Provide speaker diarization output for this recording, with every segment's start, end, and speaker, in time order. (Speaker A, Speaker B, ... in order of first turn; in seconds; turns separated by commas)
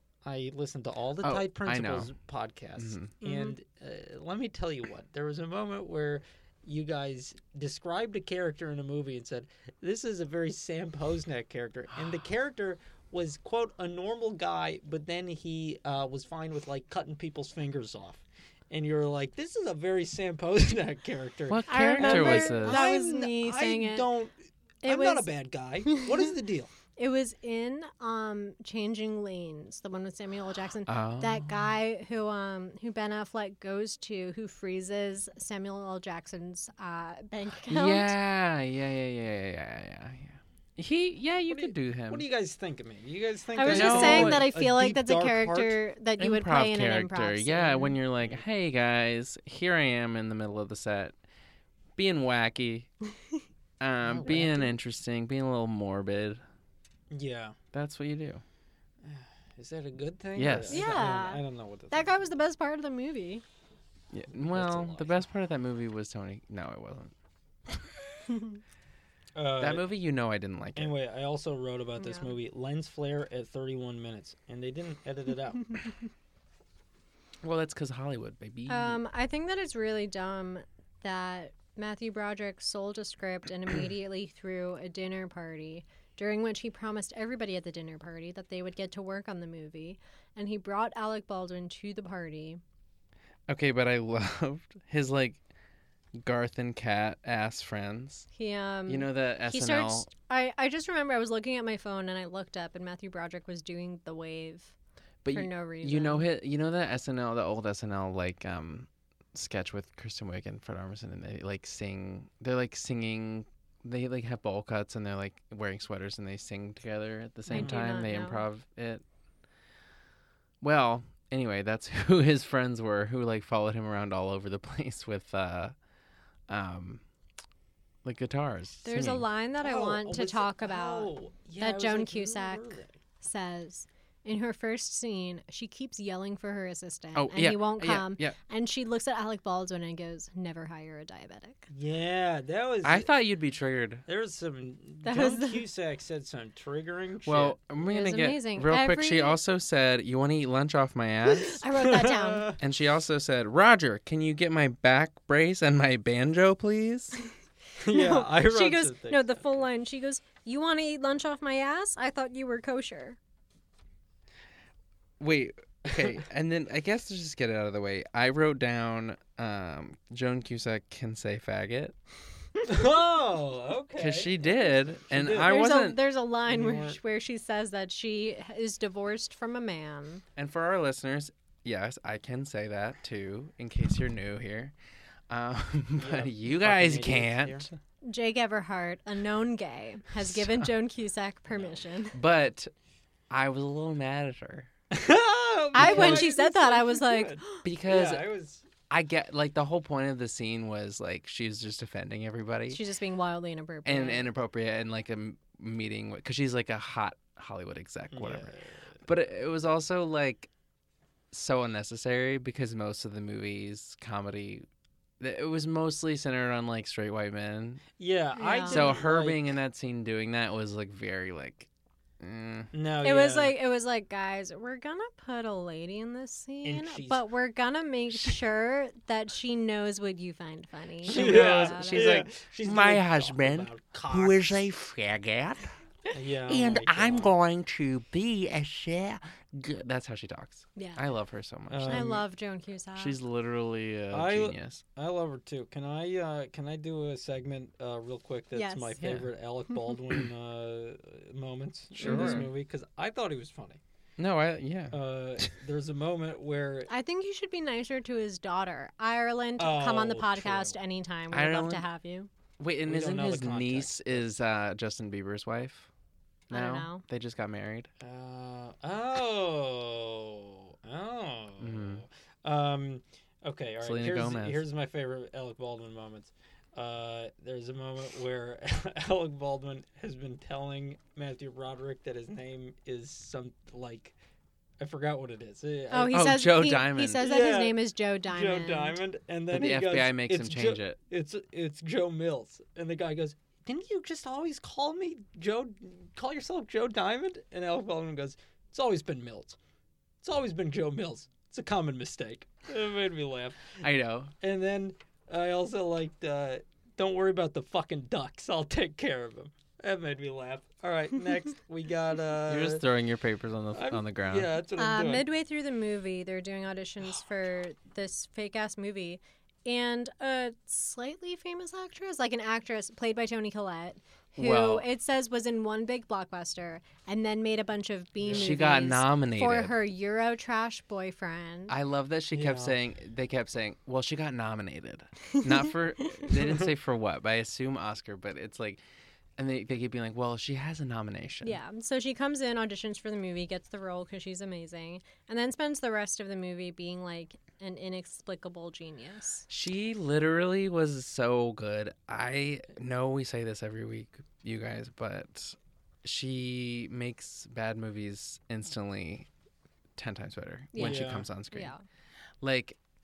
Speaker A: 0.2-26.7, Speaker B: 1.2-2.1, Speaker B: 2.8-3.1, Speaker C: 3.2-3.5, Speaker B: 21.5-22.8, Speaker C: 21.7-24.1, Speaker C: 24.8-25.3, Speaker C: 25.9-26.3, Speaker C: 26.9-38.1, Speaker B: 30.9-31.6, Speaker B: 37.7-42.2, Speaker A: 41.5-45.8, Speaker C: 43.5-48.0, Speaker B: 43.6-44.5, Speaker B: 46.2-51.1, Speaker B: 52.0-52.9, Speaker B: 53.8-56.4, Speaker A: 54.0-54.7, Speaker A: 57.1-57.5, Speaker B: 57.7-58.4, Speaker A: 59.0-62.1, Speaker B: 60.3-61.1, Speaker C: 60.7-63.4, Speaker B: 64.1-67.1, Speaker A: 64.3-65.2, Speaker B: 67.7-68.0, Speaker C: 68.3-68.5, Speaker A: 69.3-69.9, Speaker B: 69.6-70.9, Speaker A: 70.8-75.8, Speaker C: 72.0-72.3, Speaker B: 77.4-79.0, Speaker C: 78.7-92.6, Speaker B: 93.5-95.4, Speaker B: 96.2-98.3, Speaker C: 98.3-104.8, Speaker B: 98.9-100.1, Speaker B: 105.2-119.0, Speaker C: 105.3-106.2, Speaker C: 117.5-118.5, Speaker B: 120.6-125.7, Speaker B: 126.5-127.0, Speaker B: 128.0-129.2, Speaker C: 128.8-141.7, Speaker A: 129.6-133.0, Speaker B: 137.1-138.4, Speaker A: 141.7-143.1, Speaker B: 142.8-144.0, Speaker A: 144.1-147.6, Speaker C: 145.0-145.6, Speaker B: 147.2-151.6, Speaker C: 147.8-149.4, Speaker C: 151.3-152.6, Speaker A: 151.7-152.6, Speaker B: 152.6-157.2, Speaker A: 157.8-159.6, Speaker C: 157.9-163.2, Speaker B: 165.2-171.9, Speaker A: 172.6-175.6, Speaker B: 174.0-176.0, Speaker C: 175.4-180.2, Speaker A: 176.4-177.0, Speaker B: 180.3-184.7, Speaker B: 185.3-187.7, Speaker A: 186.0-187.7, Speaker C: 188.0-192.2, Speaker A: 191.5-191.8, Speaker B: 192.1-192.7, Speaker B: 193.3-194.7, Speaker A: 194.9-198.6, Speaker C: 195.7-197.6, Speaker B: 195.8-196.3, Speaker B: 197.6-198.2, Speaker B: 198.9-202.8, Speaker C: 202.7-204.3, Speaker B: 203.8-210.5, Speaker A: 208.1-208.9, Speaker B: 211.3-214.7, Speaker B: 215.2-217.8, Speaker A: 218.0-219.4, Speaker C: 218.4-219.0, Speaker B: 218.7-221.7, Speaker B: 222.2-222.7, Speaker A: 222.7-223.6, Speaker C: 223.0-232.1, Speaker A: 226.6-227.2, Speaker A: 231.1-234.7, Speaker B: 231.1-235.7, Speaker A: 236.1-237.3, Speaker B: 236.4-242.2, Speaker C: 240.8-241.0, Speaker A: 241.7-242.2, Speaker C: 241.8-243.2, Speaker B: 242.9-244.8, Speaker A: 244.1-253.8, Speaker C: 248.5-249.0, Speaker B: 249.0-249.3, Speaker B: 251.9-252.5, Speaker C: 252.0-252.5, Speaker B: 254.2-255.5, Speaker A: 254.9-256.9, Speaker C: 256.9-262.3, Speaker A: 259.6-260.8, Speaker B: 261.3-261.9, Speaker B: 262.6-265.9, Speaker A: 262.9-264.2, Speaker B: 266.5-267.9, Speaker C: 266.5-267.0, Speaker A: 268.0-284.1, Speaker B: 271.6-272.0, Speaker B: 273.8-274.6, Speaker A: 284.8-286.3, Speaker C: 285.9-289.0, Speaker B: 286.1-287.3, Speaker A: 287.2-299.6, Speaker B: 289.5-291.0, Speaker A: 300.2-303.8, Speaker B: 303.8-304.3, Speaker A: 304.4-312.8, Speaker B: 312.5-314.5, Speaker A: 313.7-315.3, Speaker C: 314.8-331.8, Speaker B: 324.4-324.9, Speaker A: 328.2-328.5, Speaker B: 328.3-329.8, Speaker B: 331.7-338.8, Speaker A: 332.3-332.8, Speaker C: 335.3-336.3, Speaker B: 339.4-341.6, Speaker C: 341.4-349.4, Speaker B: 349.5-359.3, Speaker B: 360.0-361.7, Speaker C: 360.7-361.8, Speaker A: 360.8-361.3, Speaker B: 362.4-362.8